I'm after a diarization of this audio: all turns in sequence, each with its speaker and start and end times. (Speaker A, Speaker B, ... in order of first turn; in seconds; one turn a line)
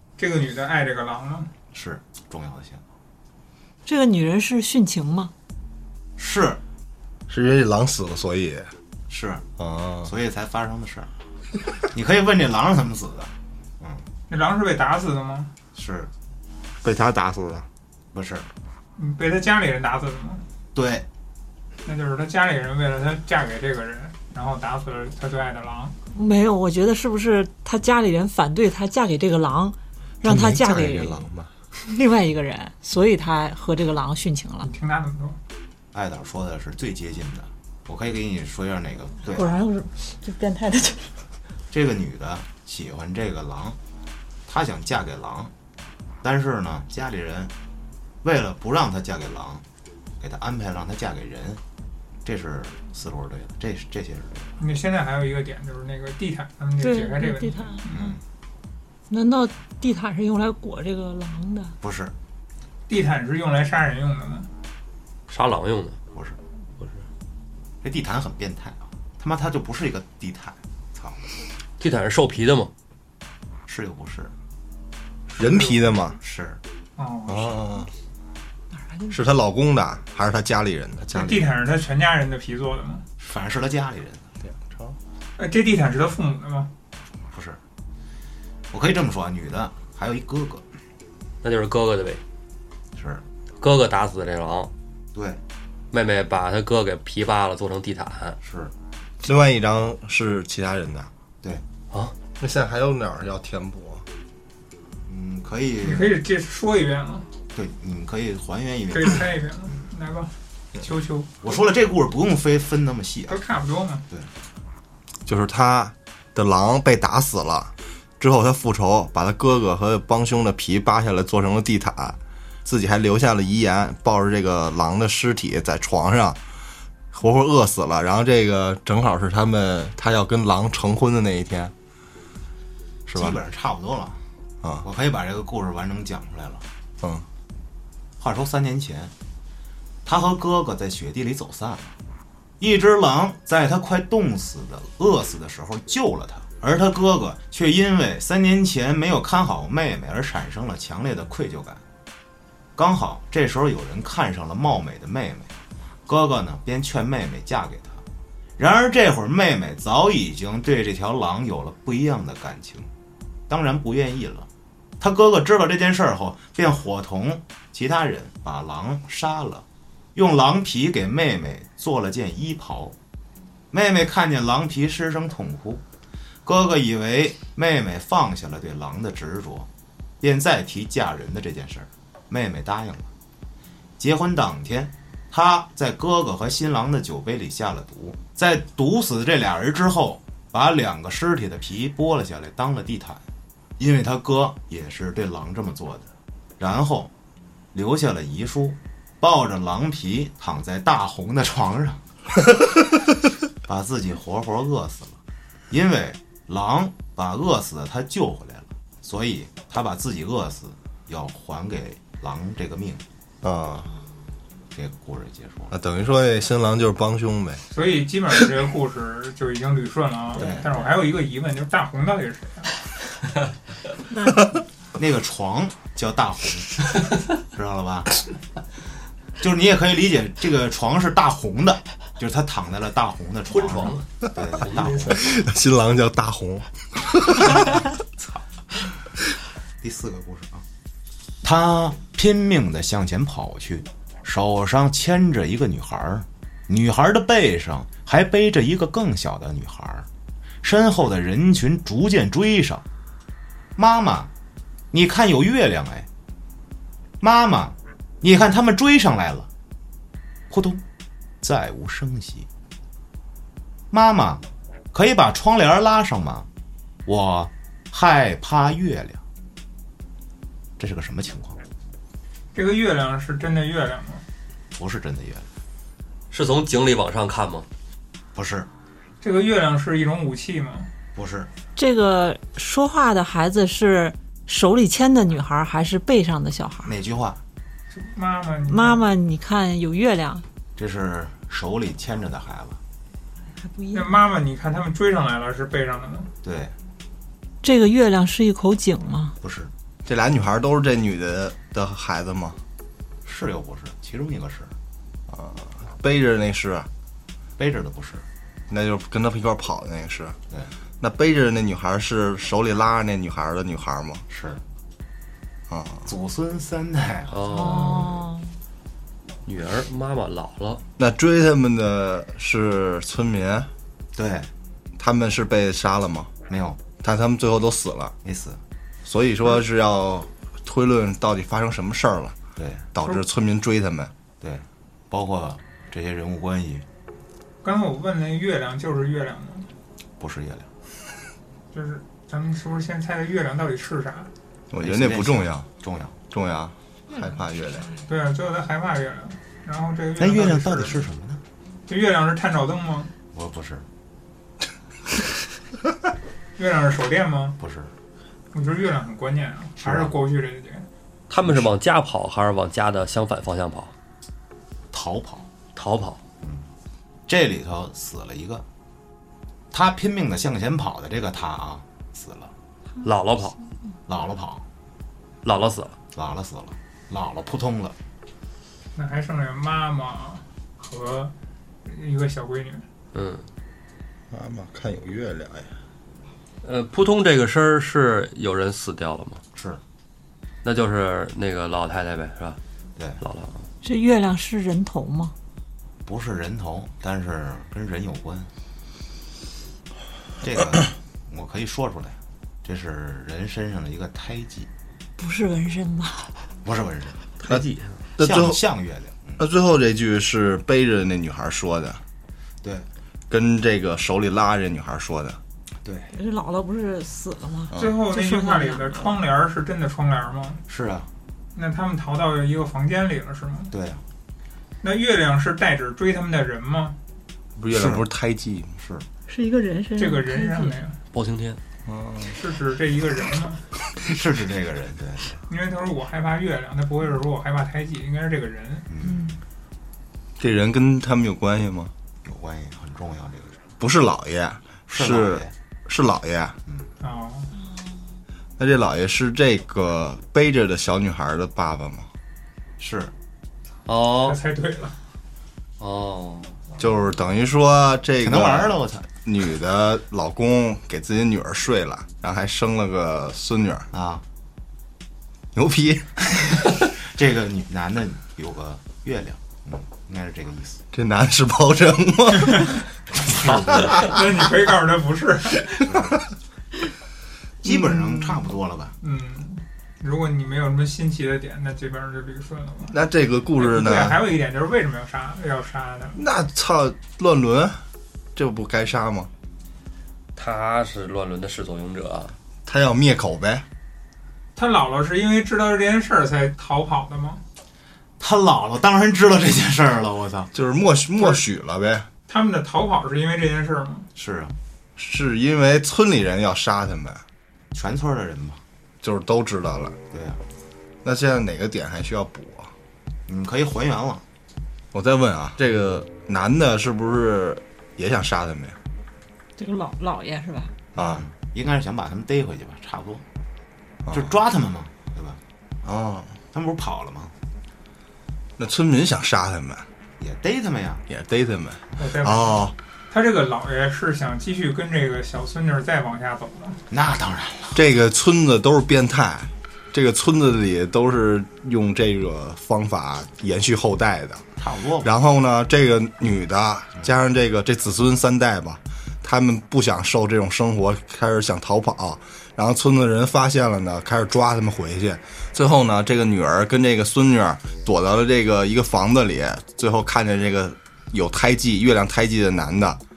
Speaker A: 0.2-1.5
Speaker B: 1.7-2.8
Speaker C: 3.8-5.3
Speaker B: 6.2-6.6
Speaker D: 7.3-8.7
Speaker B: 9.1-9.4
Speaker D: 9.6-10.1
Speaker B: 10.0-11.1
Speaker B: 11.9-14.0
Speaker A: 14.3-15.5
Speaker B: 15.7-16.1
Speaker D: 16.8-17.7
Speaker B: 18.1-18.5
Speaker A: 18.9-20.4
Speaker B: 20.7-21.1
Speaker A: 21.8-25.9
Speaker C: 26.1-31.2
Speaker D: 30.2-31.5
Speaker C: 31.8-34.7
Speaker A: 34.6-35.4
Speaker B: 35.9-39.6
Speaker C: 39.3-41.1
Speaker B: 41.7-43.8
Speaker B: 44.5-45.5
Speaker B: 46.2-47.5
Speaker B: 48.2-49.6
Speaker B: 50.2-51.6
Speaker B: 52.2-54.6
Speaker A: 54.6-58.2
Speaker C: 56.8-57.8
Speaker B: 57.9-58.2
Speaker C: 59.1-61.8
Speaker B: 61.8-62.1
Speaker A: 62.9-64.5
Speaker E: 65.3-66.0
Speaker B: 67.8-71.2
Speaker E: 71.8-72.7
Speaker B: 73.7-74.3
Speaker A: 75.3-75.8
Speaker D: 75.4-76.2
Speaker B: 76.2-76.6
Speaker A: 77.0-77.8
Speaker D: 77.3-77.9
Speaker D: 79.1-81.2
Speaker B: 81.1-81.4
Speaker A: 81.1-83.0
Speaker B: 83.2-84.3
Speaker D: 84.4-85.0
Speaker A: 85.4-86.7
Speaker B: 87.3-87.6
Speaker B: 88.7-90.6
Speaker E: 91.4-92.2
Speaker B: 93.0-93.2
Speaker E: 93.6-94.7
Speaker B: 95.1-95.4
Speaker E: 95.9-98.4
Speaker B: 98.4-98.7
Speaker D: 99.2-101.1
Speaker D: 102.4-104.0
Speaker B: 105.0-106.2
Speaker A: 105.8-107.3
Speaker B: 107.5-109.2
Speaker A: 108.9-111.3
Speaker B: 111.4-113.4
Speaker A: 113.3-114.0
Speaker D: 115.2-126.4
Speaker D: 127.1-131.7
Speaker D: 133.1-133.4
Speaker B: 133.1-134.2
Speaker B: 134.8-136.6
Speaker B: 138.2-139.1
Speaker B: 140.0-141.9
Speaker B: 142.6-151.8
Speaker B: 152.8-155.5
Speaker B: 156.1-158.0
Speaker B: 158.6-162.9
Speaker B: 163.5-164.5
Speaker B: 165.0-172.9
Speaker B: 173.7-175.8
Speaker B: 176.4-179.7
Speaker B: 180.2-183.1
Speaker B: 184.0-193.2
Speaker B: 193.8-197.1
Speaker B: 197.7-202.0
Speaker B: 203.6-205.2
Speaker B: 205.7-213.0
Speaker D: 213.4-213.9
Speaker B: 214.7-215.7
Speaker D: 215.7-217.6
Speaker A: 217.7-222.7
Speaker B: 220.4-220.7
Speaker C: 224.1-224.4
Speaker B: 225.0-226.8
Speaker B: 227.5-228.1
Speaker B: 229.4-235.4
Speaker E: 233.5-235.2
Speaker D: 235.1-237.7
Speaker B: 238.2-238.4
Speaker B: 239.8-240.6
Speaker B: 241.4-250.1
Speaker B: 250.6-252.8
Speaker B: 253.8-254.3
Speaker B: 254.9-256.1
Speaker B: 257.2-259.5
Speaker B: 260.5-260.8
Speaker B: 261.4-262.5
Speaker B: 263.9-266.5
Speaker B: 267.1-269.2
Speaker B: 270.8-271.6
Speaker A: 272.5-274.2
Speaker B: 274.7-275.5
Speaker E: 276.3-277.6
Speaker B: 278.3-278.7
Speaker A: 279.2-280.9
Speaker B: 281.1-281.5
Speaker C: 281.7-286.9
Speaker B: 286.8-287.4
Speaker A: 287.9-289.1
Speaker C: 288.7-290.4
Speaker B: 290.8-292.8
Speaker C: 293.6-294.2
Speaker A: 293.9-296.3
Speaker B: 296.4-296.7
Speaker C: 297.6-299.3
Speaker B: 299.4-299.7
Speaker D: 300.0-302.6
Speaker B: 303.2-304.7
Speaker D: 305.3-306.9
Speaker B: 307.6-308.2
Speaker D: 308.7-310.4
Speaker D: 311.0-314.2
Speaker B: 314.3-314.6
Speaker D: 315.7-316.1
Speaker B: 316.1-317.4
Speaker E: 317.3-318.2
Speaker C: 317.5-318.5
Speaker E: 319.4-320.8
Speaker D: 321.0-323.7
Speaker B: 324.1-324.5
Speaker D: 325.0-326.3
Speaker B: 326.5-326.8
Speaker D: 327.0-328.1
Speaker B: 328.2-328.6
Speaker D: 329.0-332.4
Speaker B: 332.6-332.8
Speaker D: 332.9-334.1
Speaker B: 334.4-336.9
Speaker A: 337.6-339.7
Speaker B: 340.2-340.7
Speaker A: 341.7-344.3
Speaker D: 344.7-345.7
Speaker B: 344.8-346.1
Speaker D: 346.3-347.9
Speaker A: 348.1-351.0
Speaker B: 350.2-351.4
Speaker A: 351.9-353.1
Speaker B: 353.3-353.9
Speaker A: 356.6-357.6
Speaker B: 357.6-357.9
Speaker A: 358.5-360.9
Speaker B: 359.8-360.1
Speaker E: 361.3-363.9
Speaker B: 364.9-365.5
Speaker E: 365.7-366.2
Speaker B: 366.4-366.7
Speaker B: 367.3-368.6
Speaker B: 369.7-372.5
Speaker E: 373.0-373.6
Speaker B: 374.1-374.6
Speaker E: 375.4-376.0
Speaker B: 376.1-377.9
Speaker A: 378.9-381.3
Speaker A: 381.8-382.8
Speaker E: 383.1-383.5
Speaker D: 384.3-385.7
Speaker E: 386.6-389.4
Speaker B: 389.5-389.8
Speaker E: 390.6-392.6
Speaker E: 393.2-393.7
Speaker C: 393.8-395.3
Speaker B: 396.1-398.5
Speaker B: 400.4-404.7
Speaker C: 405.2-406.3
Speaker B: 406.6-407.2
Speaker E: 407.4-408.0
Speaker D: 408.2-408.6
Speaker B: 408.2-409.4
Speaker D: 409.4-412.0
Speaker B: 412.6-412.9
Speaker D: 413.3-415.4
Speaker B: 415.8-416.1
Speaker C: 416.1-419.2
Speaker D: 417.7-418.0
Speaker A: 417.7-420.6
Speaker B: 420.7-421.1
Speaker A: 421.5-423.7
Speaker B: 423.7-424.0
Speaker A: 424.8-426.9
Speaker D: 427.6-428.7
Speaker B: 427.7-428.0
Speaker B: 428.8-429.1
Speaker C: 429.3-430.8
Speaker A: 430.0-431.0
Speaker E: 431.1-431.6
Speaker D: 431.9-432.4
Speaker A: 432.2-433.6
Speaker B: 434.1-435.4
Speaker A: 435.5-438.9
Speaker B: 438.9-439.4
Speaker C: 439.0-439.3
Speaker D: 440.4-441.9
Speaker B: 442.2-443.6
Speaker D: 443.8-446.6
Speaker B: 444.9-445.5
Speaker A: 447.0-447.5
Speaker D: 448.6-452.1
Speaker B: 452.8-453.1
Speaker E: 453.9-454.4
Speaker A: 454.2-454.9
Speaker E: 455.8-456.6
Speaker D: 456.8-463.9
Speaker B: 458.2-459.1
Speaker B: 463.9-464.2
Speaker D: 465.5-466.1
Speaker B: 467.0-470.8
Speaker D: 470.9-472.7
Speaker B: 473.2-473.8
Speaker A: 473.6-475.8
Speaker D: 473.7-474.1
Speaker B: 475.9-476.2
Speaker B: 477.6-478.9
Speaker A: 479.0-483.0
Speaker D: 482.9-484.2
Speaker A: 483.6-486.2
Speaker D: 486.1-487.8
Speaker D: 488.3-489.3
Speaker E: 490.4-492.4
Speaker D: 492.6-493.6
Speaker A: 494.6-497.4
Speaker B: 498.2-500.5
Speaker D: 500.5-502.1
Speaker A: 502.3-504.1
Speaker B: 504.1-504.5
Speaker D: 505.0-507.2
Speaker B: 507.7-508.6
Speaker D: 509.0-509.9
Speaker B: 510.1-510.4
Speaker D: 511.0-512.7
Speaker B: 513.3-514.2
Speaker D: 514.9-518.8
Speaker C: 519.5-520.7
Speaker B: 520.9-523.2
Speaker D: 521.0-521.2
Speaker D: 524.0-524.3
Speaker B: 524.1-525.4
Speaker D: 525.8-526.4
Speaker B: 526.5-527.3
Speaker D: 528.6-529.9
Speaker B: 530.2-531.0
Speaker D: 531.1-532.7
Speaker A: 532.0-536.8
Speaker B: 536.9-537.8
Speaker D: 537.7-544.4
Speaker B: 544.6-545.1
Speaker D: 545.0-563.0